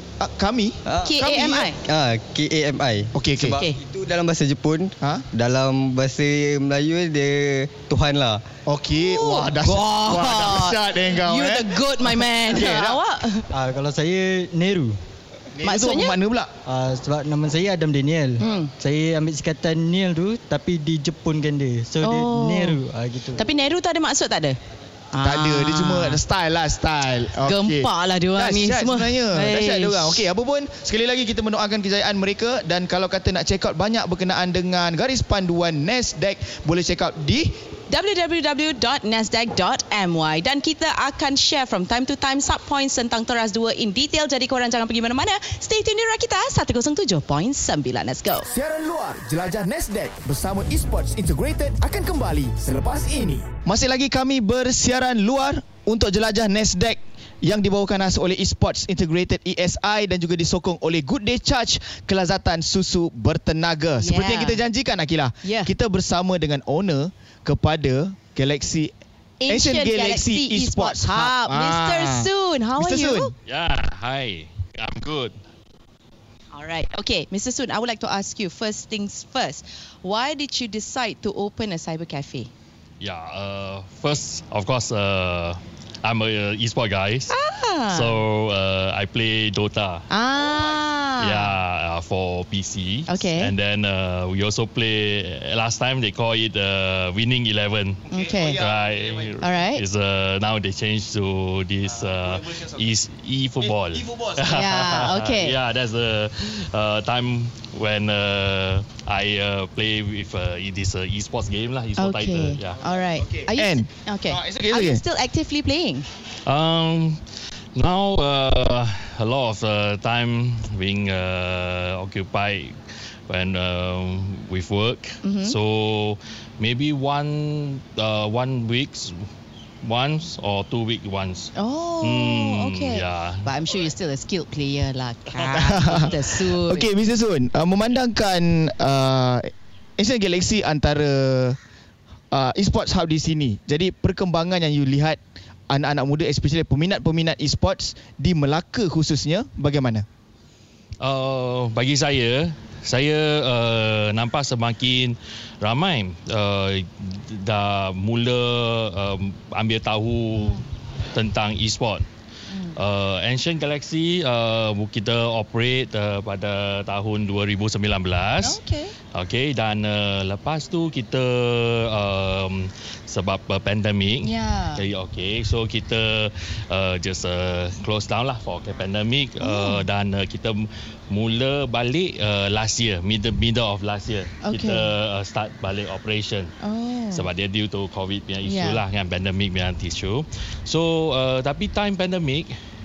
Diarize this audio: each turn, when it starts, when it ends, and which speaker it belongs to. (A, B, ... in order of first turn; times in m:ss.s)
0:00.2-0:01.7 A
0:00.9-0:01.2 B
0:01.0-0:01.8 C
0:01.8-0:08.4 B
0:03.1-0:03.6 A
0:05.0-0:05.2 A
0:08.6-0:13.0 A
0:09.0-0:13.4 C
0:13.5-0:15.0 D
0:15.5-0:16.5 A
0:15.6-0:16.2 C
0:16.6-0:23.4 D
0:18.4-0:18.7 C
0:22.0-0:22.8 C
0:23.4-0:24.6 C
0:25.1-0:26.2 C
0:25.2-0:37.5 A
0:27.4-0:30.2 C
0:37.9-0:48.5 C
0:48.4-0:53.6 E
0:53.6-1:08.9 A
1:04.0-1:04.6 C
1:05.4-1:05.7 C
1:09.4-1:13.3 C
1:09.5-1:13.3 A
1:13.4-1:15.4 F
1:16.5-1:22.5 C
1:23.0-1:27.3 F
1:27.3-1:28.2 C
1:27.9-1:30.1 F
1:30.1-1:31.5 C
1:31.2-1:52.8 F
1:33.1-1:33.5 C
1:38.1-1:38.6 C
1:39.4-1:39.8 C
1:44.4-1:45.6 C
1:52.0-1:56.1 C
1:53.4-1:55.0 A
1:56.4-1:57.2 F
1:57.7-2:09.2 F
2:05.2-2:05.6 C
2:09.8-2:13.5 F
2:11.5-2:16.9 C
2:15.3-2:16.1 F
2:15.5-2:21.6 A
2:22.3-2:30.1 A
2:31.0-2:42.0 F
2:40.4-2:40.6 C
2:42.5-2:42.8 C
2:42.8-2:48.6 F
2:48.4-2:49.0 C
2:49.1-3:06.5 F
2:54.2-2:54.8 C
2:59.4-2:59.8 C
3:04.4-3:04.9 C
3:06.6-3:07.2 C
3:07.1-3:12.5 F
3:08.4-3:08.8 C